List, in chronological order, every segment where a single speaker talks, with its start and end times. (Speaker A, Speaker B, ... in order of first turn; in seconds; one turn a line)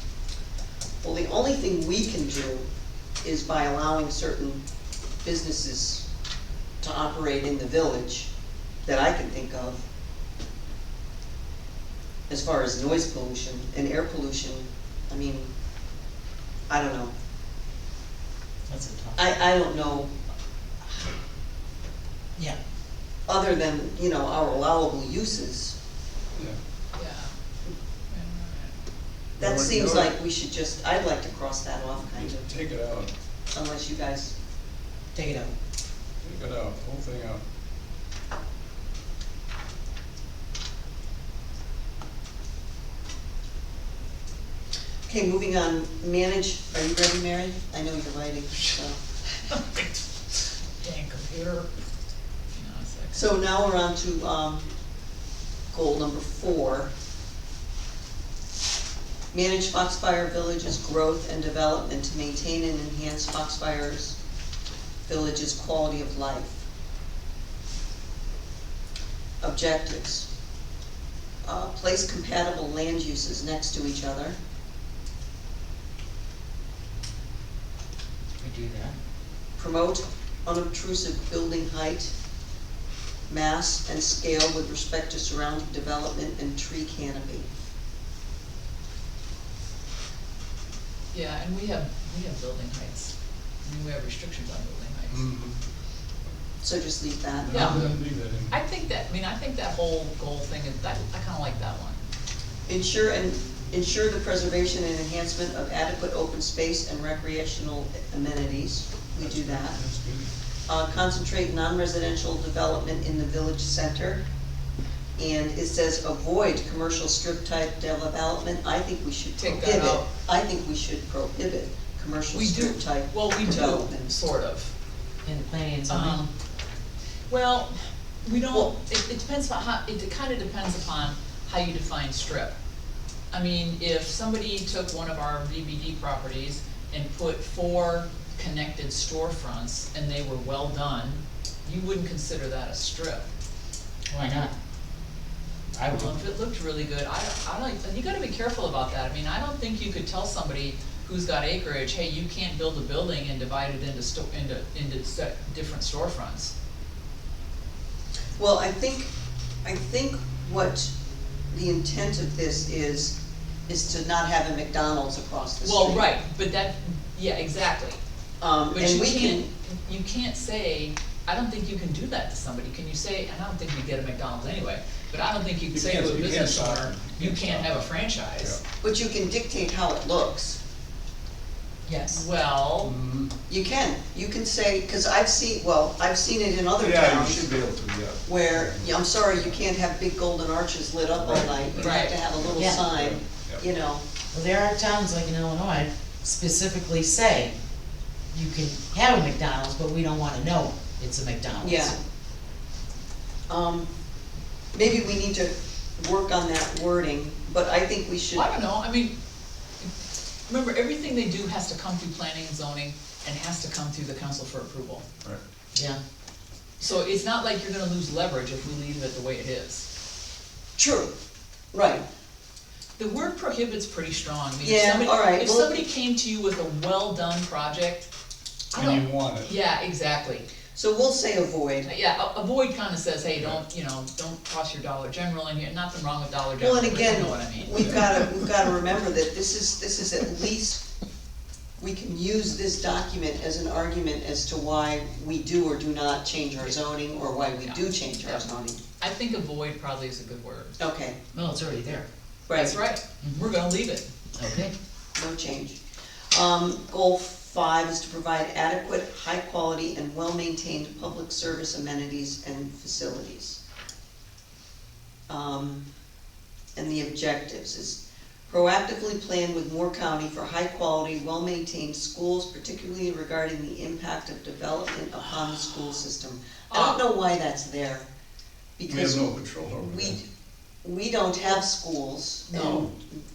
Speaker A: 1.0-2.7
Speaker A: 3.2-4.6
Speaker A: 5.2-6.1
Speaker A: 6.8-8.3
Speaker A: 8.8-9.8
Speaker A: 12.3-15.5
Speaker A: 16.7-17.1
Speaker B: 18.7-19.2
Speaker A: 19.2-20.1
Speaker A: 23.3-25.8
Speaker C: 26.9-27.4
Speaker C: 28.1-28.8
Speaker A: 29.4-32.5
Speaker D: 29.4-30.1
Speaker D: 32.0-33.1
Speaker A: 33.5-34.3
Speaker B: 35.1-35.5
Speaker D: 36.2-37.4
Speaker A: 45.1-49.0
Speaker C: 49.5-51.8
Speaker C: 52.5-53.3
Speaker A: 53.1-54.6
Speaker A: 55.7-56.9
Speaker A: 59.3-64.2
Speaker A: 65.1-66.6
Speaker A: 69.4-70.3
Speaker A: 71.4-74.4
Speaker B: 78.4-79.0
Speaker A: 79.6-82.1
Speaker A: 83.3-87.5
Speaker C: 91.1-95.3
Speaker D: 95.1-95.5
Speaker A: 96.6-97.9
Speaker D: 97.5-98.5
Speaker C: 97.5-97.9
Speaker B: 97.7-97.9
Speaker C: 98.5-102.0
Speaker A: 102.7-109.8
Speaker D: 109.2-110.3
Speaker A: 110.7-114.2
Speaker A: 115.2-124.1
Speaker C: 119.4-120.0
Speaker C: 122.3-124.7
Speaker B: 125.2-126.3
Speaker C: 125.9-126.3
Speaker C: 127.3-132.6
Speaker C: 133.3-143.3
Speaker B: 144.1-144.5
Speaker B: 145.7-146.2
Speaker C: 145.9-156.5
Speaker A: 158.4-159.1
Speaker A: 159.6-160.9
Speaker A: 161.5-163.2
Speaker A: 163.7-166.1
Speaker C: 165.6-168.0
Speaker A: 168.4-169.5
Speaker C: 168.7-178.6
Speaker D: 175.7-178.6
Speaker A: 178.8-180.6
Speaker B: 181.9-182.2
Speaker C: 182.1-182.9
Speaker D: 182.8-183.3
Speaker A: 183.5-187.6
Speaker D: 186.8-189.5
Speaker A: 188.2-194.1
Speaker D: 191.2-193.6
Speaker C: 191.8-192.2
Speaker B: 192.6-192.8
Speaker B: 194.3-197.6
Speaker B: 198.3-202.0
Speaker A: 201.6-201.9
Speaker A: 203.5-203.9
Speaker A: 204.8-208.5
Speaker C: 208.3-209.2
Speaker C: 210.5-215.1
Speaker C: 216.8-219.9
Speaker A: 220.8-221.1
Speaker A: 221.7-222.0
Speaker C: 223.0-228.1
Speaker A: 224.6-225.8
Speaker C: 228.7-230.5
Speaker D: 228.7-229.5
Speaker A: 230.7-231.9
Speaker C: 231.9-238.2
Speaker A: 236.6-240.8
Speaker A: 241.8-248.8
Speaker C: 247.6-248.5
Speaker C: 249.0-250.8
Speaker A: 250.8-251.2
Speaker B: 251.3-252.1
Speaker A: 252.5-252.8
Speaker C: 252.5-254.1
Speaker B: 253.2-253.5
Speaker B: 254.4-254.7
Speaker A: 255.2-255.8
Speaker A: 256.3-263.6
Speaker A: 265.3-265.8
Speaker A: 266.8-278.1
Speaker C: 276.7-277.0
Speaker A: 278.8-280.2
Speaker D: 278.9-280.2
Speaker A: 280.8-283.2
Speaker C: 282.5-282.9